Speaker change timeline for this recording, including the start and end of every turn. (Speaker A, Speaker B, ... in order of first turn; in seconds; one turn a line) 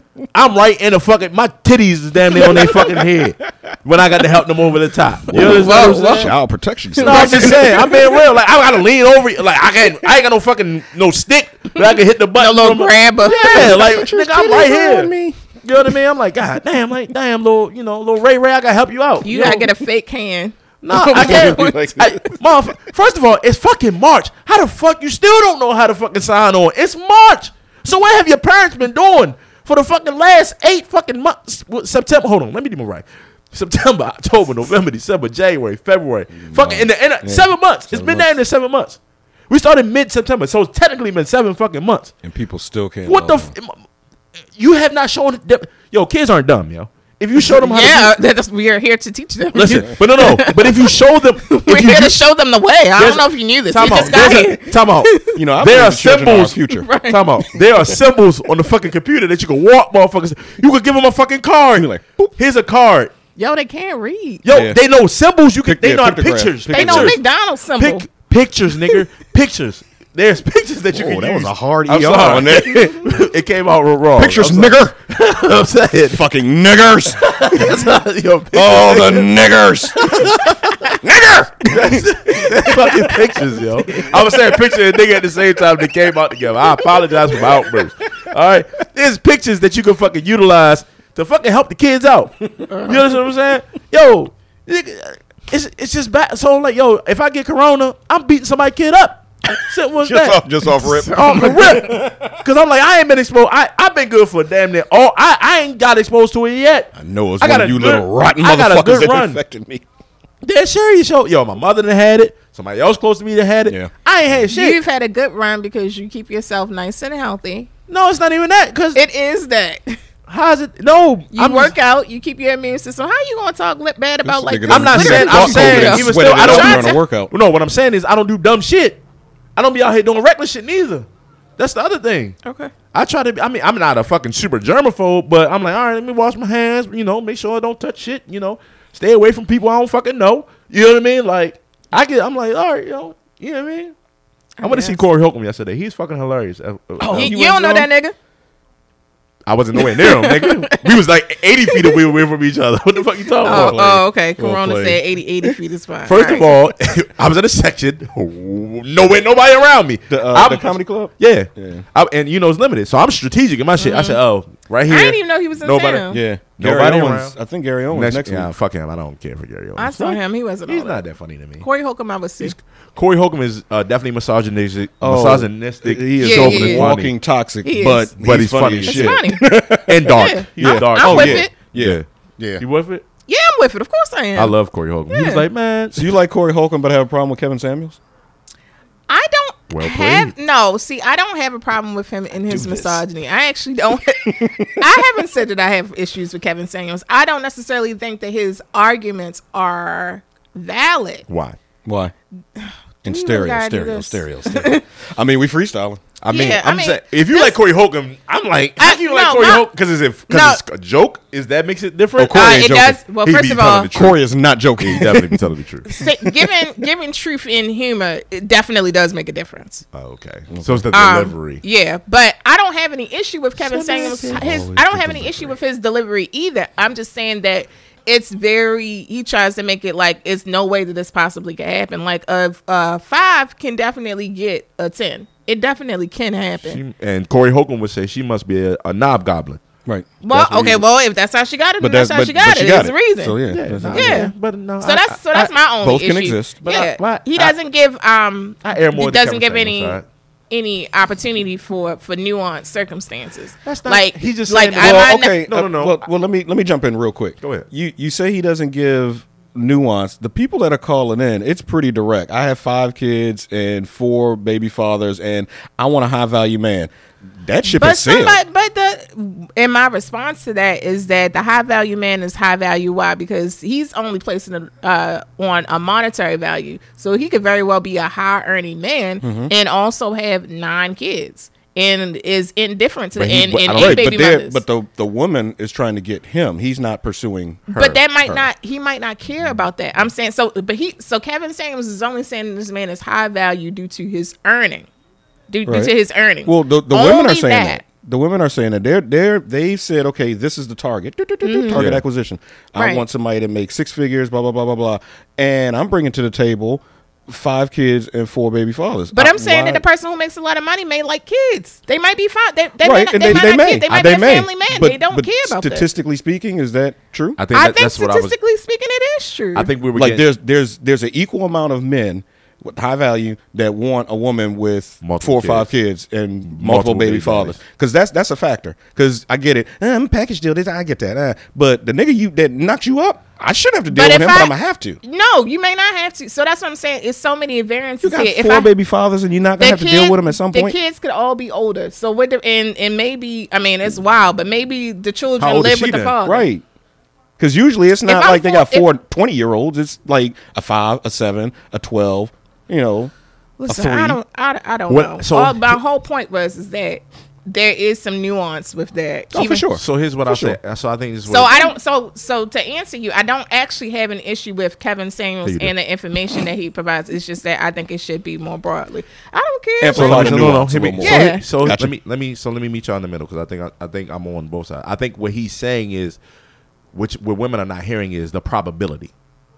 Speaker A: 0.3-6.3
Speaker B: 5.3-7.8
Speaker C: 5.3-6.3
Speaker C: 7.0-8.2
Speaker A: 7.0-15.1
Speaker C: 11.7-14.0
Speaker B: 13.4-15.4
Speaker A: 15.6-19.7
Speaker C: 19.2-22.3
Speaker A: 20.8-42.1
Speaker B: 21.2-22.2
Speaker B: 36.5-38.4
Speaker B: 42.2-43.5
Speaker A: 43.1-43.8
Speaker A: 44.6-48.1
Speaker C: 47.6-55.4
Speaker A: 49.5-52.2
Speaker A: 53.0-63.1
Speaker B: 55.4-56.9
Speaker C: 56.7-57.6
Speaker B: 61.8-62.3
Speaker C: 63.4-64.4
Speaker A: 64.4-67.2
Speaker B: 64.5-64.8
Speaker B: 65.6-67.2
Speaker C: 66.7-68.1
Speaker A: 67.8-76.2
Speaker B: 70.9-73.1
Speaker B: 74.2-75.0
Speaker B: 76.1-77.9
Speaker A: 77.2-81.0
Speaker B: 78.5-80.3
Speaker B: 80.9-83.0
Speaker A: 81.7-109.4
Speaker C: 92.7-93.0
Speaker B: 100.0-102.4
Speaker C: 100.8-101.8
Speaker B: 107.0-109.8
Speaker A: 110.4-114.8
Speaker C: 114.5-117.7
Speaker A: 117.9-119.0
Speaker C: 119.0-120.0
Speaker A: 120.3-121.7
Speaker C: 121.3-127.0
Speaker B: 124.2-127.3
Speaker A: 124.7-129.0
Speaker A: 129.6-131.1
Speaker A: 131.6-132.4
Speaker C: 132.4-132.7
Speaker A: 132.9-143.9
Speaker C: 144.6-145.0
Speaker A: 144.6-147.3
Speaker B: 147.0-147.9
Speaker C: 147.0-148.2
Speaker A: 149.5-154.1
Speaker C: 149.8-150.8
Speaker C: 151.7-152.0
Speaker C: 153.4-156.5
Speaker B: 153.4-153.8
Speaker B: 154.4-155.5
Speaker A: 156.1-166.1
Speaker B: 160.1-161.8
Speaker C: 163.8-164.2
Speaker C: 164.9-166.2
Speaker B: 166.1-168.5
Speaker A: 166.6-167.3
Speaker A: 167.9-171.7
Speaker C: 169.8-171.0
Speaker C: 171.6-172.6
Speaker A: 172.4-177.1
Speaker B: 175.0-182.6
Speaker C: 176.2-176.9
Speaker C: 177.6-178.1
Speaker A: 178.2-182.1
Speaker C: 178.9-181.5
Speaker A: 182.6-183.0
Speaker C: 183.3-184.5
Speaker A: 184.3-186.1
Speaker C: 185.1-185.4
Speaker B: 185.9-188.0
Speaker C: 189.1-201.2
Speaker A: 189.7-190.3
Speaker B: 192.5-193.0
Speaker B: 194.2-194.9
Speaker A: 201.3-201.6
Speaker B: 201.8-202.1
Speaker C: 202.6-204.8
Speaker B: 203.0-206.0
Speaker A: 206.2-214.2
Speaker C: 206.3-207.6
Speaker C: 208.8-209.7
Speaker C: 210.3-210.6
Speaker B: 212.2-213.0
Speaker C: 212.3-213.9
Speaker B: 213.9-215.4
Speaker A: 214.8-216.0
Speaker C: 215.9-219.8
Speaker B: 216.0-216.6
Speaker A: 219.9-221.6
Speaker B: 220.5-220.9
Speaker C: 220.9-236.8
Speaker A: 223.6-224.6
Speaker B: 224.3-225.6
Speaker A: 236.6-239.6
Speaker C: 240.2-243.4
Speaker A: 240.3-240.8
Speaker B: 241.8-244.2
Speaker A: 243.5-245.5
Speaker C: 243.9-250.0
Speaker B: 245.8-246.7
Speaker A: 246.6-247.6
Speaker A: 248.7-250.1
Speaker C: 250.5-255.4
Speaker A: 253.7-256.1
Speaker B: 254.8-268.4
Speaker A: 257.4-257.7
Speaker C: 267.8-284.6
Speaker B: 279.2-279.5
Speaker A: 283.1-284.3
Speaker B: 283.8-287.7
Speaker C: 287.7-294.9
Speaker A: 287.7-288.0
Speaker C: 295.5-297.8
Speaker B: 295.6-295.9
Speaker B: 296.4-309.8
Speaker C: 301.4-301.9
Speaker A: 301.7-302.0
Speaker C: 302.8-303.0
Speaker C: 309.1-315.9
Speaker B: 312.8-317.4
Speaker A: 313.9-314.3
Speaker A: 317.4-318.4
Speaker C: 317.5-319.7
Speaker A: 319.5-320.2
Speaker B: 319.9-335.0
Speaker A: 325.0-325.7
Speaker A: 326.5-327.6
Speaker C: 333.9-338.7
Speaker B: 338.0-340.8
Speaker C: 339.6-346.5
Speaker A: 345.4-346.1
Speaker B: 346.2-346.6
Speaker B: 347.4-353.1
Speaker C: 348.1-348.9
Speaker C: 353.6-359.6
Speaker B: 353.7-354.2
Speaker A: 354.9-355.8
Speaker B: 359.3-360.6
Speaker A: 359.3-361.7
Speaker C: 361.3-370.4
Speaker A: 365.5-365.7
Speaker B: 369.8-371.9
Speaker A: 369.9-376.2
Speaker C: 371.0-371.4
Speaker A: 376.9-379.1